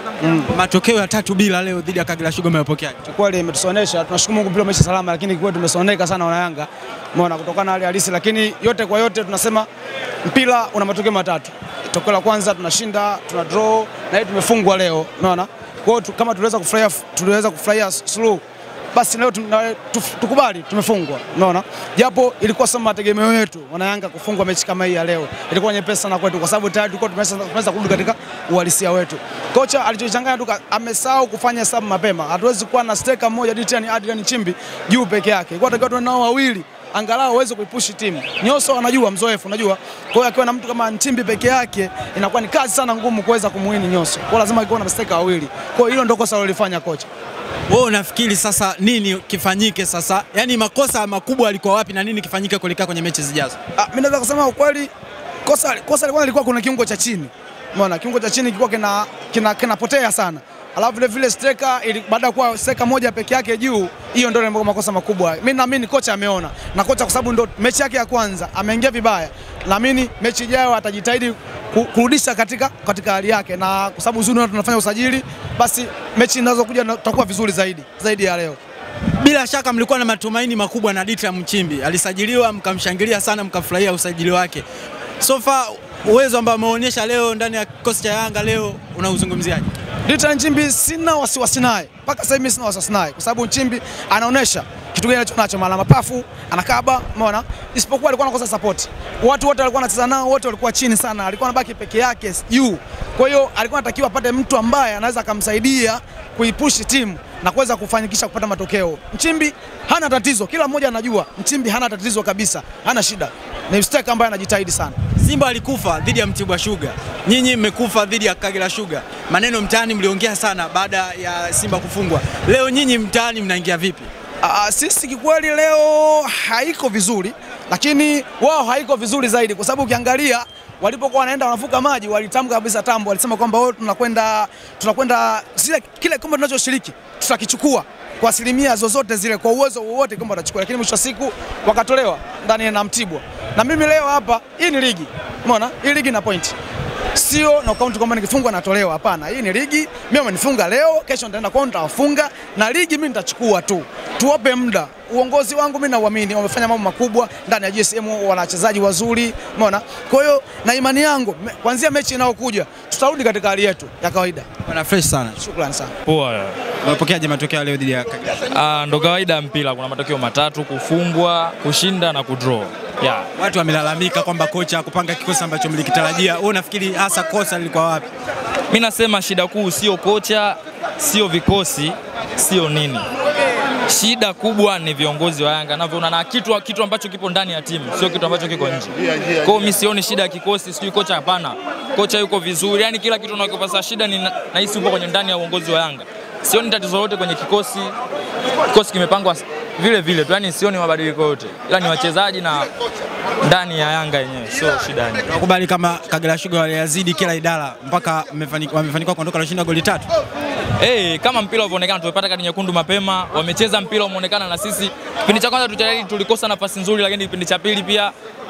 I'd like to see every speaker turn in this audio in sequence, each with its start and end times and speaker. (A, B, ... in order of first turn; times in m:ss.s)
0:00.2-0:00.5 A
0:00.5-0:03.0 B
0:03.0-0:09.7 A
0:10.2-0:18.4 A
0:18.9-0:47.1 A
0:47.7-0:53.6 B
0:53.8-0:54.9 A
0:55.4-1:18.6 A
1:19.2-1:24.6 B
1:25.2-1:29.7 B
1:30.1-1:55.0 A
1:55.2-2:04.1 B
2:04.4-2:26.5 A
2:27.2-2:44.5 A
2:44.6-2:45.4 B
2:45.4-2:45.9 A
2:46.1-2:46.6 C
2:46.8-2:48.4 B
2:48.5-2:53.3 C
2:53.4-2:58.1 B
2:58.7-3:03.1 C
3:03.9-3:18.0 C
3:18.7-3:22.7 C
3:23.4-3:25.3 C
3:25.3-3:30.1 B
3:30.8-3:38.1 C